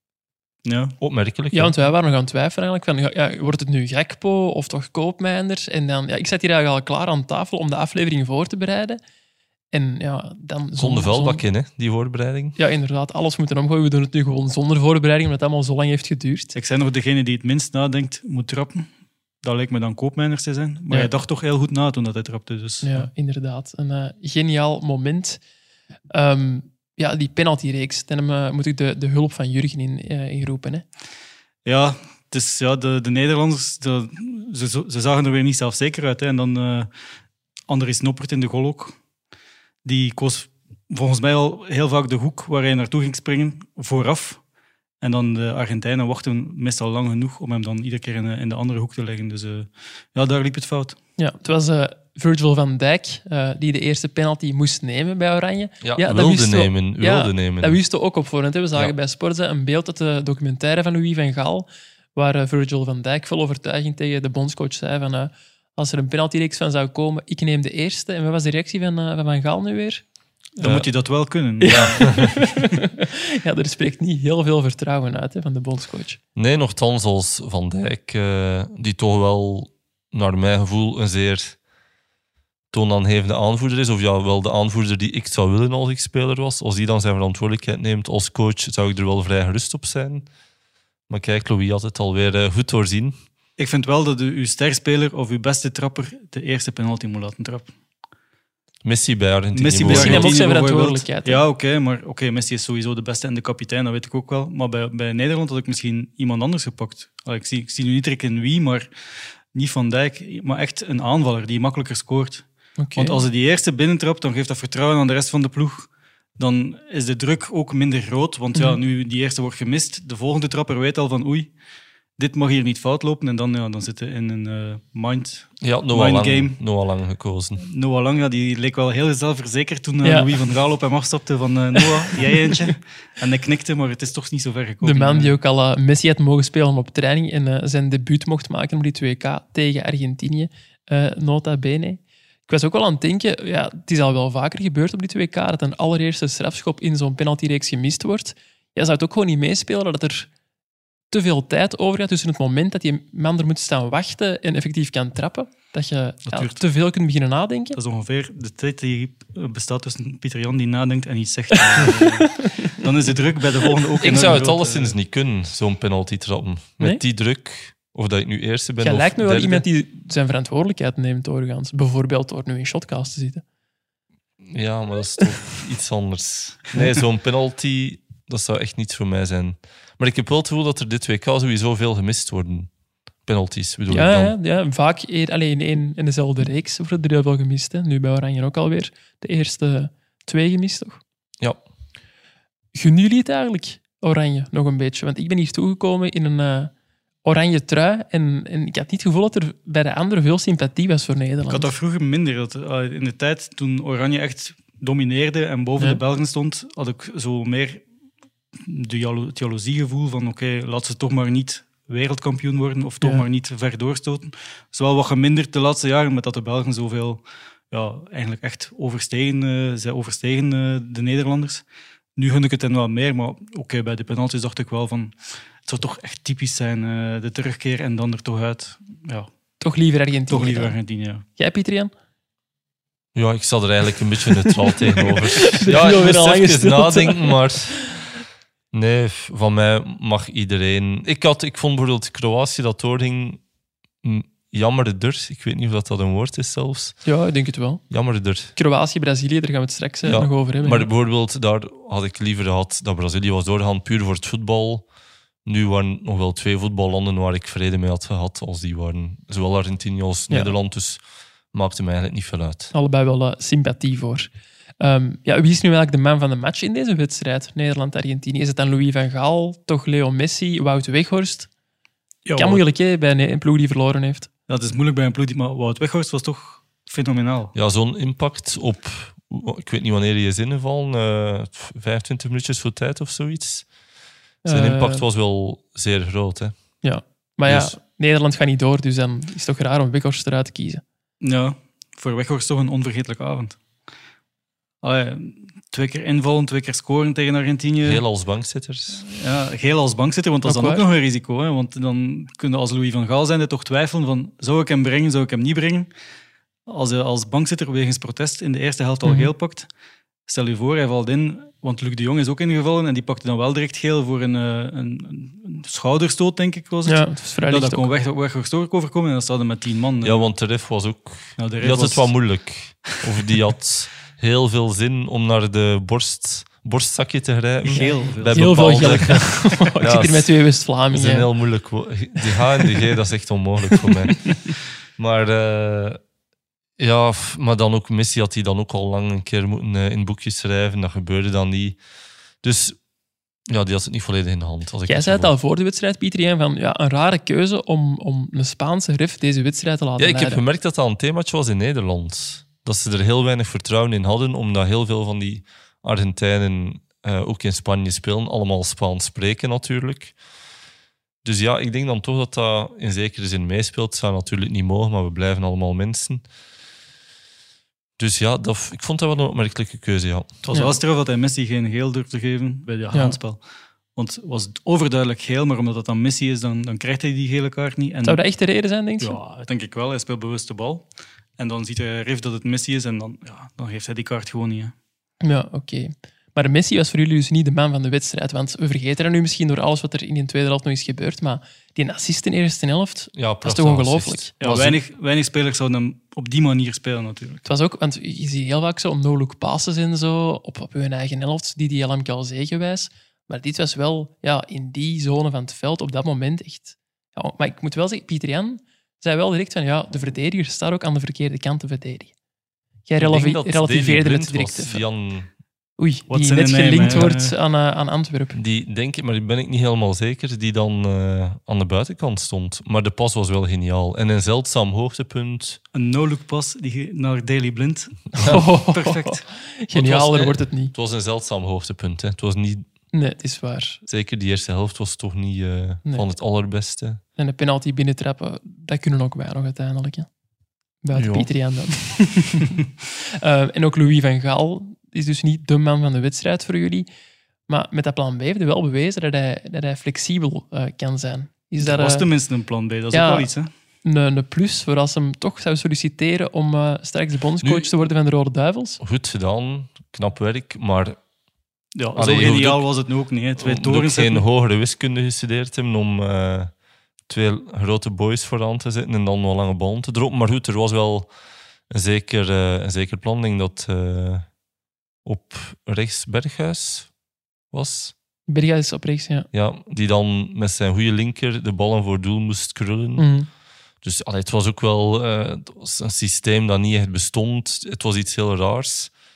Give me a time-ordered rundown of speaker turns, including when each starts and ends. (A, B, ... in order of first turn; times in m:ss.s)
0:00.6-0:01.0 A
0:01.0-0:01.8 B
0:01.5-0:09.0 C
0:09.7-0:11.5 C
0:10.8-0:12.6 B
0:12.6-0:16.6 C
0:16.6-0:18.9 A
0:19.4-0:23.1 A
0:22.8-0:25.4 C
0:26.1-0:30.9 C
0:31.6-0:36.9 A
0:37.7-0:39.0 A
0:39.8-0:44.4 A
0:45.0-0:51.0 A
0:51.2-1:10.0 C
0:55.8-0:57.8 B
1:10.6-1:12.4 A
1:10.6-1:10.9 B
1:11.6-1:16.2 C
1:11.7-1:12.4 B
1:16.4-1:21.6 B
1:22.7-1:30.3 B
1:31.1-1:33.2 B
1:33.6-1:37.7 A
1:38.8-1:40.3 B
1:39.5-1:48.9 A
1:39.8-1:41.4 C
1:49.5-2:01.5 A
1:52.8-1:53.2 C
2:02.2-2:06.6 A
2:05.6-2:07.6 B
2:07.6-2:15.4 A
2:10.0-2:10.3 C
2:11.8-2:12.7 C
2:14.8-2:30.3 C
2:31.1-2:37.8 C
2:36.3-2:36.6 A
2:37.8-2:45.0 A
2:41.8-2:42.7 C
2:44.0-2:49.7 B
2:48.8-2:53.4 C
2:54.5-3:02.7 B
3:03.3-3:04.3 B
3:03.9-3:11.0 C
3:12.7-3:16.7 C
3:17.2-3:21.7 C
3:21.5-3:27.8 A
3:28.6-3:41.6 A
3:42.2-3:49.3 A
3:49.6-3:50.8 C
3:50.3-3:51.2 A
3:51.4-3:51.9 C
3:53.2-3:58.1 B
3:54.7-3:57.6 C
3:58.7-4:03.4 B
4:04.0-4:07.0 B
4:07.0-4:07.8 C
4:07.9-4:08.5 B
4:08.5-4:10.9 C
4:10.0-4:14.9 B
4:15.4-4:21.0 B
4:21.5-4:22.7 B
4:22.7-4:24.3 C
4:24.8-4:31.5 C
4:32.2-4:32.6 A
4:32.4-4:34.3 C
4:34.5-4:37.5 A
4:37.5-4:43.7 B
4:44.4-4:45.0 C
4:44.4-4:46.6 B
4:46.8-4:50.8 C
4:47.5-4:47.8 B
4:51.2-4:53.6 A
4:54.8-4:58.0 A
4:57.8-4:59.0 B
4:59.0-5:05.9 A
5:00.4-5:00.8 C
5:06.7-5:09.7 A
5:09.0-5:09.3 C
5:10.3-5:20.3 A
5:16.9-5:17.9 C
5:20.0-5:30.3 B
5:21.4-5:22.2 A
5:27.6-5:28.9 A
5:27.7-5:31.3 C
5:30.9-5:34.4 B
5:35.0-5:36.0 B
5:36.8-5:41.8 B
5:42.4-5:42.8 B
5:43.5-5:45.3 B
5:44.9-5:50.4 C
5:50.0-6:00.2 B
6:01.2-6:06.2 B
6:08.0-6:10.3 B
6:10.4-6:13.4 A
6:10.5-6:10.8 C
6:12.9-6:13.2 C
6:14.0-6:18.2 A
6:18.0-6:19.2 C
6:19.0-6:24.7 A
6:25.2-6:34.3 C
6:33.2-6:34.8 B
6:34.4-6:37.4 A
6:37.4-6:52.1 C
6:52.9-6:54.8 C
6:53.0-6:55.3 B
6:55.8-6:58.4 C
6:56.1-6:57.4 A
6:58.3-7:05.6 B
7:05.7-7:09.2 A
7:08.2-7:10.7 C
7:09.7-7:12.7 B
7:12.9-7:13.8 C
7:13.9-7:17.0 B
7:17.2-7:20.1 C
7:20.8-7:26.9 C
7:20.9-7:21.3 B
7:27.5-7:32.1 C
7:31.6-7:33.5 A
7:32.9-7:33.3 C
7:33.8-7:38.8 C
7:37.4-7:37.8 B
7:38.8-7:41.0 B
7:41.8-7:44.2 A
7:42.0-7:42.7 B
7:43.4-7:46.5 B
7:47.1-7:51.1 B
7:51.7-7:54.3 B
7:55.0-7:56.9 B
7:57.5-7:57.9 B
7:58.3-7:59.3 C
7:59.3-8:03.1 B
8:03.0-8:03.3 C
8:03.8-8:08.9 B